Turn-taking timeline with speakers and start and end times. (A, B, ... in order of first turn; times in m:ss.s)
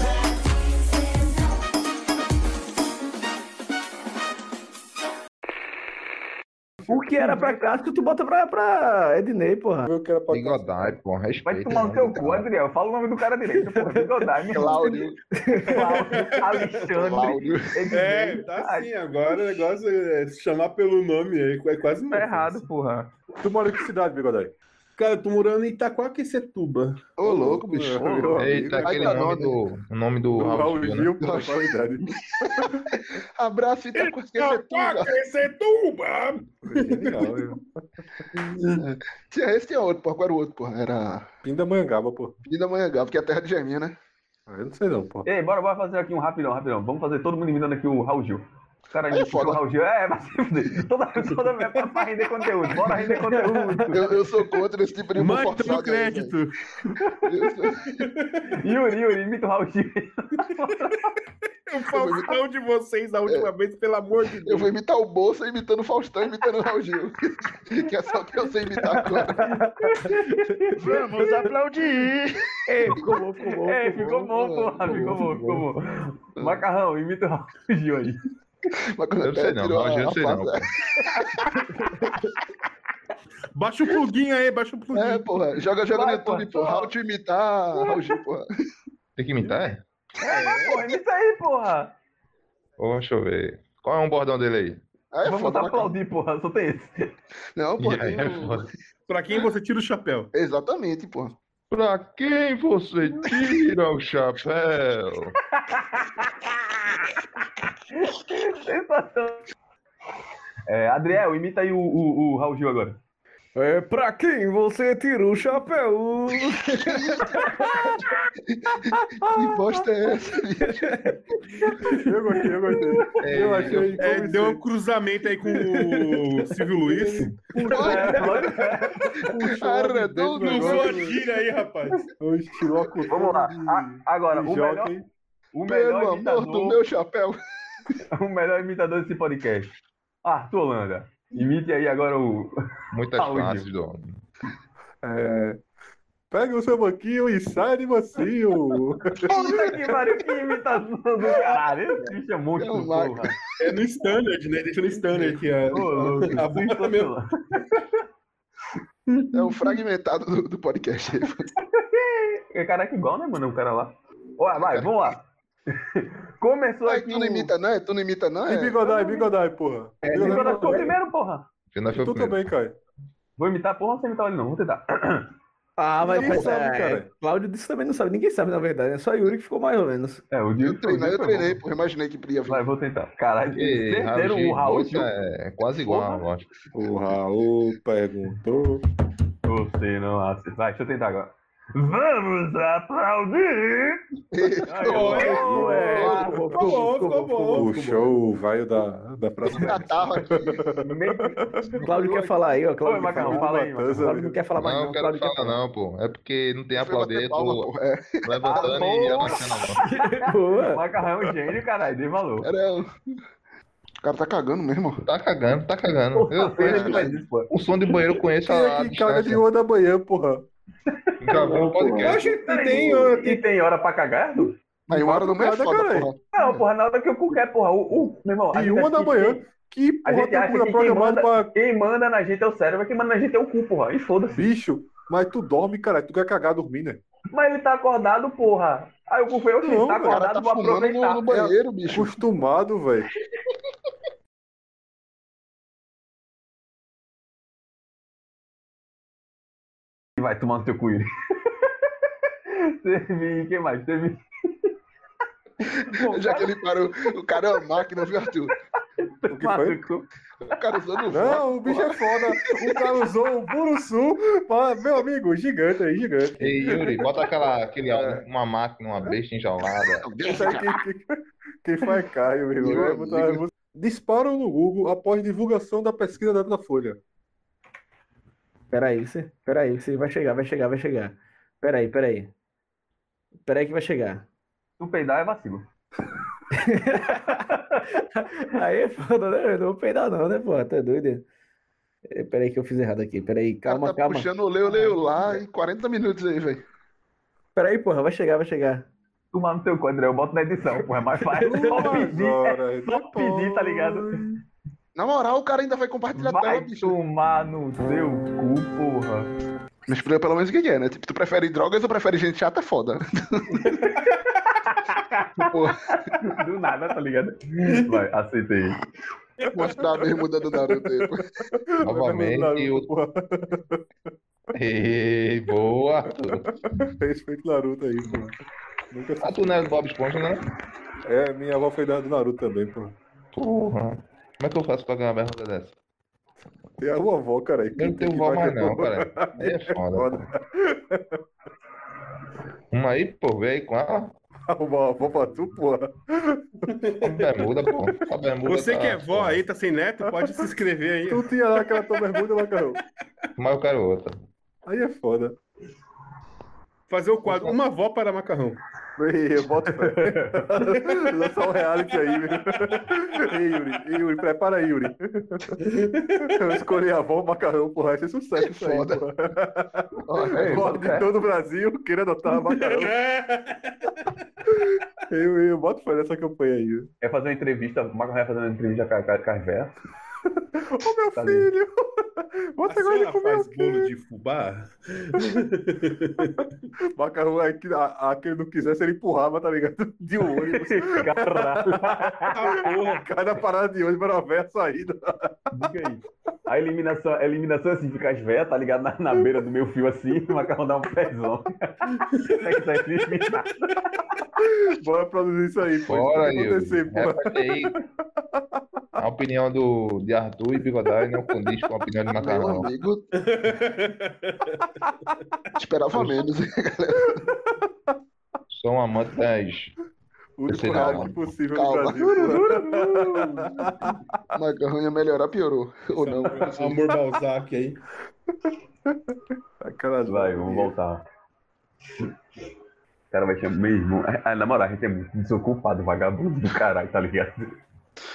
0:06.8-0:07.6 A
0:06.9-0:09.9 B
0:09.8-0:10.7 A
0:10.3-0:12.5 C
0:11.5-0:15.0 D
0:13.6-0:16.1 B
0:14.5-0:15.2 E
0:15.6-0:18.9 D
0:15.8-0:16.9 F
0:16.9-0:17.9 E
0:17.9-0:22.7 F
0:22.1-0:23.1 D
0:23.4-0:24.5 A
0:25.0-0:27.1 F
0:27.2-0:29.6 E
0:27.2-0:29.2 A
0:28.0-0:28.4 D
0:28.4-0:31.1 C
0:30.4-0:32.9 A
0:31.2-0:31.6 E
0:32.9-0:35.2 E
0:34.0-0:37.5 F
0:36.6-0:38.0 A
0:38.4-0:38.8 F
0:38.8-0:41.3 E
0:41.4-0:42.3 A
0:42.5-0:43.9 E
0:44.5-0:45.3 A
0:45.3-0:54.2 D
0:49.1-0:49.6 E
0:53.3-0:53.9 B
0:53.9-0:56.4 E
0:55.2-0:56.9 F
0:57.3-0:58.0 E
0:58.0-0:58.5 F
0:58.5-1:01.1 D
1:01.7-1:04.7 F
1:01.9-1:02.4 E
1:04.4-1:09.5 E
1:09.0-1:11.5 B
1:09.7-1:11.6 D
1:10.8-1:12.2 E
1:12.7-1:14.4 B
1:13.6-1:18.2 D
1:14.4-1:15.6 E
1:15.0-1:15.5 B
1:18.9-1:21.6 E
1:19.2-1:20.7 C
1:23.6-1:25.3 F
1:24.9-1:28.5 E
1:25.9-1:26.9 D
1:29.2-1:29.8 C
1:30.2-1:31.9 D
1:30.2-1:30.8 F
1:32.8-1:34.8 C
1:35.1-1:36.0 E
1:35.2-1:37.1 D
1:37.6-1:38.7 E
1:37.8-1:38.7 C
1:39.1-1:40.3 F
1:40.3-1:41.4 E
1:41.7-1:45.4 C
1:45.5-1:47.2 D
1:47.9-1:49.5 D
1:50.7-1:53.0 D
1:53.6-1:58.1 B
1:56.8-1:57.4 E
1:58.5-2:01.0 E
2:00.6-2:01.2 B
2:01.8-2:04.6 A
2:03.2-2:04.0 C
2:04.0-2:08.2 F
2:06.9-2:08.4 A
2:07.7-2:09.3 D
2:07.7-2:08.4 E
2:09.3-2:11.2 A
2:09.4-2:11.1 E
2:10.4-2:12.1 F
2:12.2-2:15.1 A
2:13.1-2:14.9 D
2:15.5-2:16.8 D
2:15.7-2:17.4 E
2:18.1-2:22.5 D
2:22.9-2:24.2 C
2:23.2-2:23.7 D
2:25.0-2:25.6 A
2:26.3-2:29.9 A
2:29.2-2:33.4 D
2:32.6-2:33.4 E
2:33.6-2:37.1 F
2:35.2-2:38.0 D
2:35.9-2:36.4 E
2:39.1-2:39.7 F
2:39.3-2:41.4 E
2:41.7-2:47.5 D
2:46.9-2:49.0 E
2:48.5-2:50.9 A
2:50.0-2:51.5 D
2:50.1-2:50.8 B
2:51.7-2:52.4 C
2:51.9-2:52.8 A
2:53.4-2:55.3 D
2:55.8-3:00.2 B
2:56.0-2:57.1 A
3:00.3-3:01.6 D
3:00.6-3:02.6 E
3:02.5-3:05.1 D
3:03.5-3:06.5 C
3:05.8-3:06.2 D
3:06.7-3:08.8 A
3:09.4-3:14.0 D
3:14.3-3:15.4 E
3:14.6-3:16.5 D
3:14.9-3:18.1 F
3:15.1-3:17.7 B
3:15.3-3:16.7 A
3:17.5-3:21.7 A
3:19.5-3:20.6 E
3:20.8-3:21.4 D
3:21.8-3:25.6 B
3:22.8-3:24.2 D
3:23.0-3:24.4 A
3:24.6-3:27.7 C
3:26.8-3:29.4 E
3:28.2-3:29.8 C
3:28.4-3:32.5 D
3:29.8-3:30.8 B
3:32.4-3:32.9 E
3:34.0-3:35.0 E
3:35.0-3:39.4 C
3:36.2-3:37.5 D
3:36.6-3:37.1 E
3:36.7-3:37.0 A
3:38.5-3:40.4 A
3:40.9-3:41.5 D
3:41.2-3:42.2 C
3:41.3-3:42.1 B
3:42.0-3:43.4 F
3:42.0-3:44.6 D
3:44.9-3:46.1 A
3:44.9-3:46.2 E
3:46.3-3:49.5 D
3:48.5-3:51.5 A
3:50.0-3:54.5 D
3:54.4-3:57.0 A
3:57.3-4:01.3 D
3:59.6-4:00.2 A
4:00.1-4:02.2 E
4:01.3-4:03.1 A
4:10.2-4:11.1 D
4:12.5-4:14.7 D
4:15.6-4:18.5 E
4:15.9-4:16.5 D
4:19.0-4:20.1 D
4:19.3-4:19.8 A
4:20.4-4:22.4 E
4:21.1-4:27.0 A
4:26.4-4:30.1 C
4:27.9-4:28.2 A
4:30.0-4:30.8 E
4:30.2-4:31.1 A
4:31.6-4:37.0 A
4:32.6-4:33.4 E
4:38.7-4:42.3 B
4:43.5-4:44.2 B
4:44.8-4:45.7 D
4:46.5-4:51.2 B
4:52.1-4:54.3 B
4:53.7-4:56.6 E
4:57.6-4:58.9 B
4:59.3-5:04.2 D
5:01.4-5:04.4 A
5:01.4-5:02.1 B
5:05.0-5:07.0 E
5:06.1-5:09.3 D
5:09.9-5:13.8 E
5:13.6-5:18.8 D
5:15.4-5:16.2 E
5:19.5-5:21.3 E
5:20.7-5:23.8 A
5:21.8-5:22.9 C
5:24.6-5:26.5 C
5:26.2-5:28.3 A
5:28.9-5:29.4 A
5:29.2-5:30.4 C
5:31.1-5:33.0 A
5:33.3-5:35.8 C
5:36.8-5:41.2 A
5:37.8-5:40.3 C
5:42.7-5:44.2 C
5:44.5-5:46.7 A
5:46.7-5:47.0 F
5:47.0-5:49.4 C
5:48.5-5:52.3 F
5:51.1-5:52.8 A
5:53.4-5:54.2 C
5:54.7-5:55.4 A
5:56.9-5:58.6 F
5:59.0-6:05.6 A
5:59.9-6:00.4 D
6:05.7-6:06.4 F
6:06.2-6:13.0 A
6:08.4-6:09.0 E
6:10.1-6:11.0 E
6:10.3-6:11.1 D
6:12.4-6:14.0 F
6:14.4-6:16.9 A
6:17.0-6:19.7 D
6:20.6-6:23.9 A
6:21.2-6:21.5 D
6:22.7-6:26.5 F
6:27.0-6:35.6 A
6:30.4-6:32.4 D
6:32.3-6:33.1 F
6:35.5-6:43.8 D
6:44.4-6:47.8 A
6:45.9-6:47.7 C
6:49.0-6:52.7 C
6:52.2-6:53.1 E
6:53.2-6:54.6 F
6:55.6-6:57.3 E
6:58.5-6:59.7 C
7:00.4-7:04.0 A
7:00.5-7:01.2 C
7:00.5-7:02.5 E
7:02.2-7:03.3 D
7:04.4-7:06.8 E
7:06.2-7:07.8 F
7:08.5-7:10.7 A
7:10.1-7:11.0 D
7:13.1-7:17.5 D